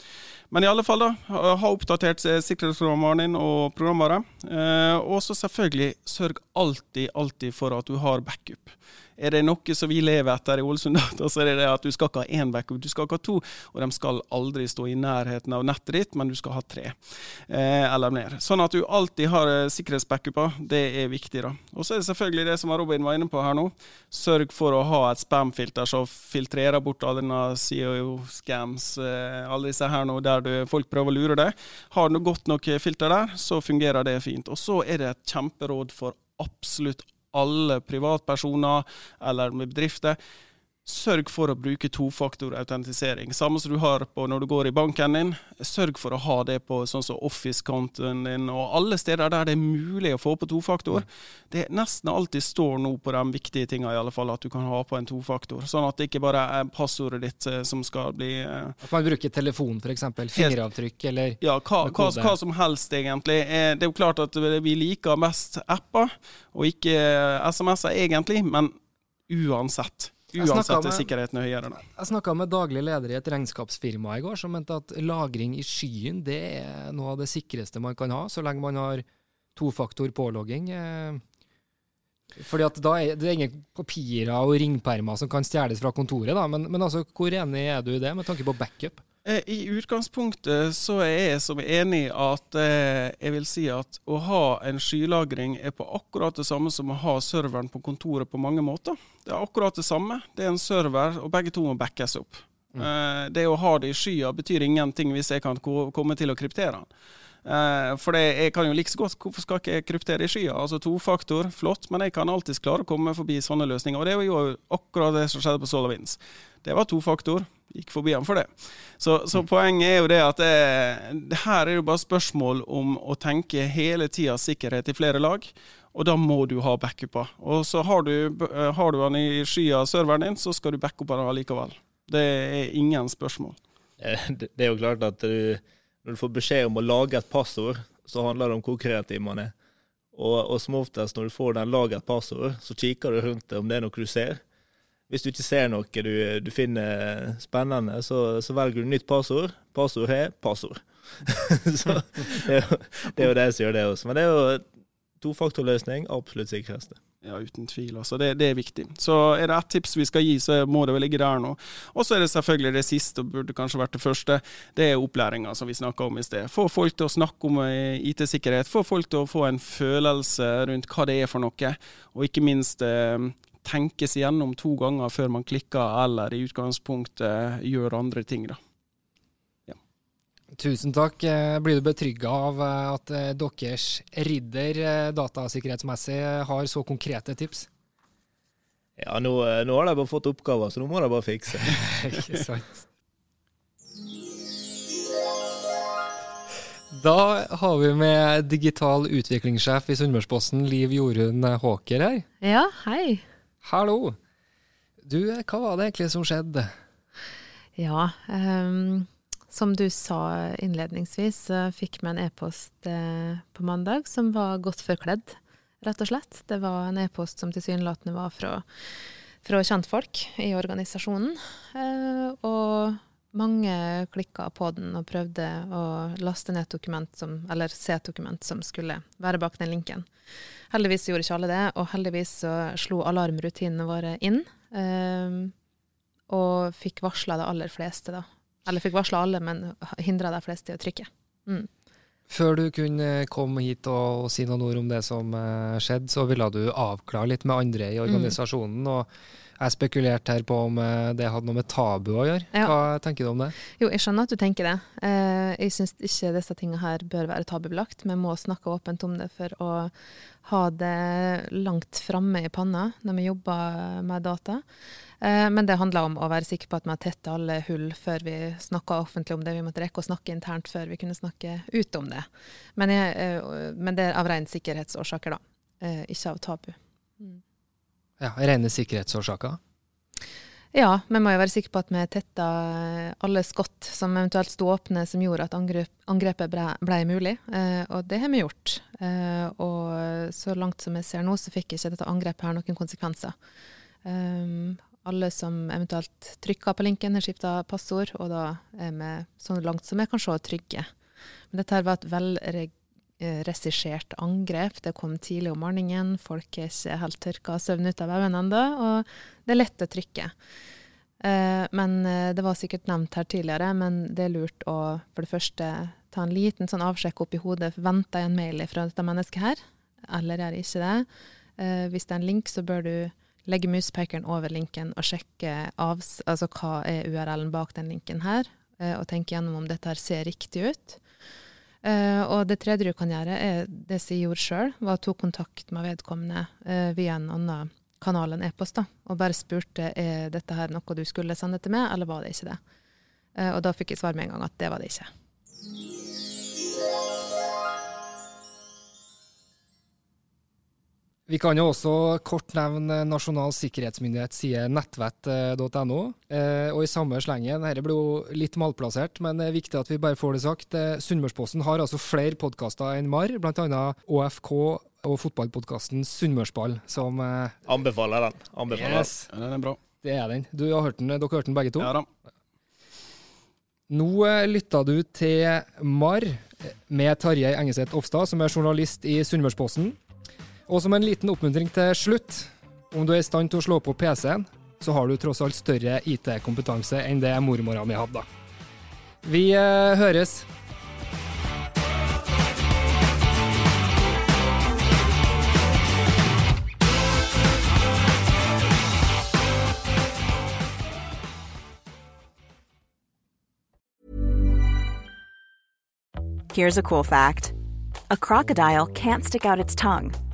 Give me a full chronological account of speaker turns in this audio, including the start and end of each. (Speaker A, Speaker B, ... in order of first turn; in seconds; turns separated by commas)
Speaker A: 0.5-40.2, Speaker A: 40.9-58.8, Speaker B: 58.8-62.4, Speaker A: 61.4-68.7, Speaker A: 69.3-71.8, Speaker B: 70.3-71.1, Speaker B: 71.9-79.0, Speaker B: 79.6-81.2, Speaker B: 82.4-89.0, Speaker A: 89.2-106.9, Speaker A: 107.5-133.6, Speaker C: 134.0-139.5, Speaker C: 140.1-144.4, Speaker C: 145.1-154.7, Speaker C: 155.2-157.0, Speaker A: 157.2-178.6, Speaker B: 180.6-187.7, Speaker C: 189.0-191.7, Speaker B: 191.7-192.9, Speaker B: 196.9-202.3, Speaker D: 202.4-203.2, Speaker B: 203.6-204.2, Speaker B: 205.0-206.7, Speaker D: 207.8-218.7, Speaker D: 219.4-230.1, Speaker D: 230.7-235.5, Speaker D: 236.3-241.7, Speaker B: 242.3-249.1, Speaker D: 248.1-248.4, Speaker B: 249.6-253.6, Speaker D: 253.7-264.6, Speaker D: 265.2-277.4, Speaker B: 278.2-279.6, Speaker D: 280.7-293.4, Speaker D: 294.1-300.9, Speaker D: 301.5-310.3, Speaker D: 311.2-321.1, Speaker D: 321.6-331.0, Speaker D: 331.8-342.6, Speaker D: 343.4-345.1, Speaker B: 351.3-367.6, Speaker C: 367.7-369.1, Speaker B: 368.7-369.3, Speaker A: 369.3-369.8, Speaker B: 370.0-371.9, Speaker A: 371.8-372.1, Speaker B: 373.9-380.0, Speaker B: 380.7-388.3, Speaker B: 389.2-390.5, Speaker E: 406.5-407.6, Speaker E: 408.1-410.2